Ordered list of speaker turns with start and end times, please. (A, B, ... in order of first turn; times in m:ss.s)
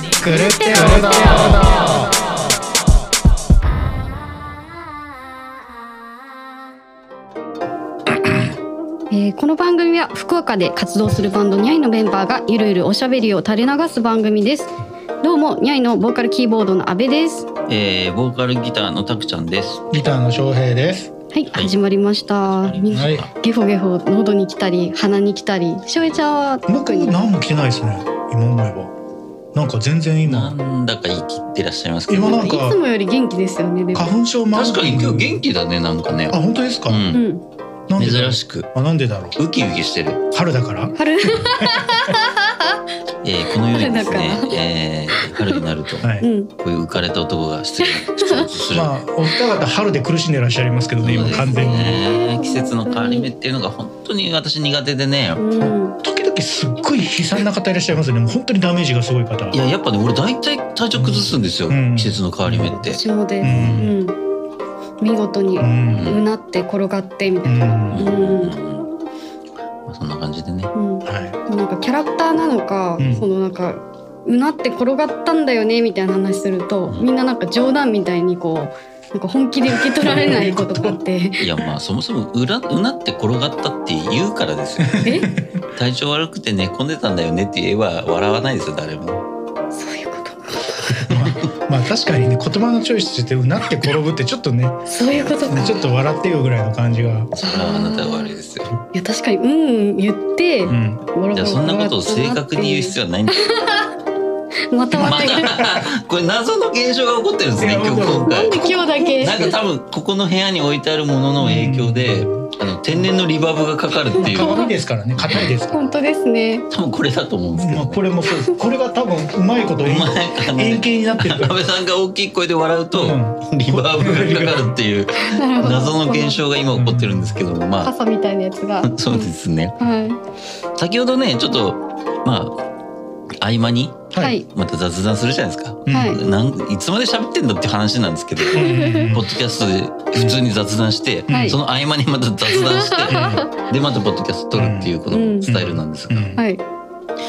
0:00.2-0:02.1 A
0:00.2-0:01.8 B
0:09.1-0:14.7 B
0:15.2-0:17.5 B
0:17.7-0:19.9 C
0:19.9-0:21.1 A
0:21.3-0:27.2 B
0:22.3-0:23.3 C
0:22.9-0:23.2 A
0:26.7-0:28.9 A
0:29.5-0:30.6 A
0:30.2-0:32.5 C
0:32.1-0:32.8 A
0:32.2-0:34.1 B
0:33.9-0:35.4 A
0:34.5-0:37.2 C
0:36.3-0:37.1 A
0:37.1-0:37.4 B
0:37.9-0:39.4 A
0:38.0-0:38.7 C
0:39.4-0:40.2 C
0:40.3-0:42.1 A
0:41.0-0:42.8 B
0:43.2-0:49.0 C
0:43.7-0:44.6 B
0:45.2-0:45.6 B
0:46.0-0:46.3 A
0:46.2-0:46.5 B
0:47.8-0:48.5 B
0:48.7-0:52.0 A
0:51.0-0:55.4 C
0:51.1-0:53.3 B
0:55.4-0:56.0 B
0:55.6-0:59.6 A
0:59.5-1:03.9 C
1:01.0-1:02.8 A
1:02.8-1:04.2 B
1:03.4-1:04.0 A
1:05.0-1:08.6 B
1:05.6-1:06.2 A
1:05.9-1:06.2 C
1:07.4-1:08.1 A
1:07.9-1:08.9 C
1:09.9-1:10.7 C
1:10.7-1:21.5 B
1:11.1-1:11.4 A
1:13.0-1:13.2 A
1:19.7-1:21.0 A
1:21.4-1:25.1 C
1:24.8-1:25.6 A
1:25.0-1:25.3 B
1:25.7-1:29.2 C
1:29.7-1:31.2 B
1:30.9-1:34.9 A
1:34.9-1:35.9 B
1:35.1-1:35.4 C
1:35.5-1:37.3 A
1:37.4-1:38.7 C
1:37.4-1:38.4 B
1:38.9-1:43.9 B
1:40.7-1:41.0 A
1:41.3-1:43.6 C
1:44.7-1:45.5 B
1:44.9-1:45.9 A
1:45.0-1:54.6 C
1:47.6-1:49.6 A
1:48.3-1:49.6 B
1:51.4-1:52.5 A
1:54.2-1:54.7 B
1:54.2-1:55.9 A
1:55.2-1:55.6 C
1:55.7-1:56.7 B
1:56.7-1:58.4 C
1:57.6-2:01.6 A
1:58.3-1:58.6 B
1:59.8-2:07.9 C
2:02.9-2:04.7 A
2:05.1-2:06.4 B
2:06.7-2:07.4 A
2:07.8-2:10.2 B
2:08.8-2:09.8 C
2:10.8-2:12.6 C
2:13.4-2:26.4 C
2:14.2-2:14.4 B
2:15.9-2:16.2 A
2:15.9-2:16.2 B
2:18.5-2:19.2 B
2:18.5-2:19.3 A
2:20.1-2:20.4 A
2:21.3-2:21.6 B
2:21.3-2:21.6 A
2:22.5-2:23.5 B
2:23.1-2:23.4 A
2:24.5-2:24.9 A
2:25.1-2:25.5 B
2:25.4-2:26.4 A
2:26.4-2:26.6 B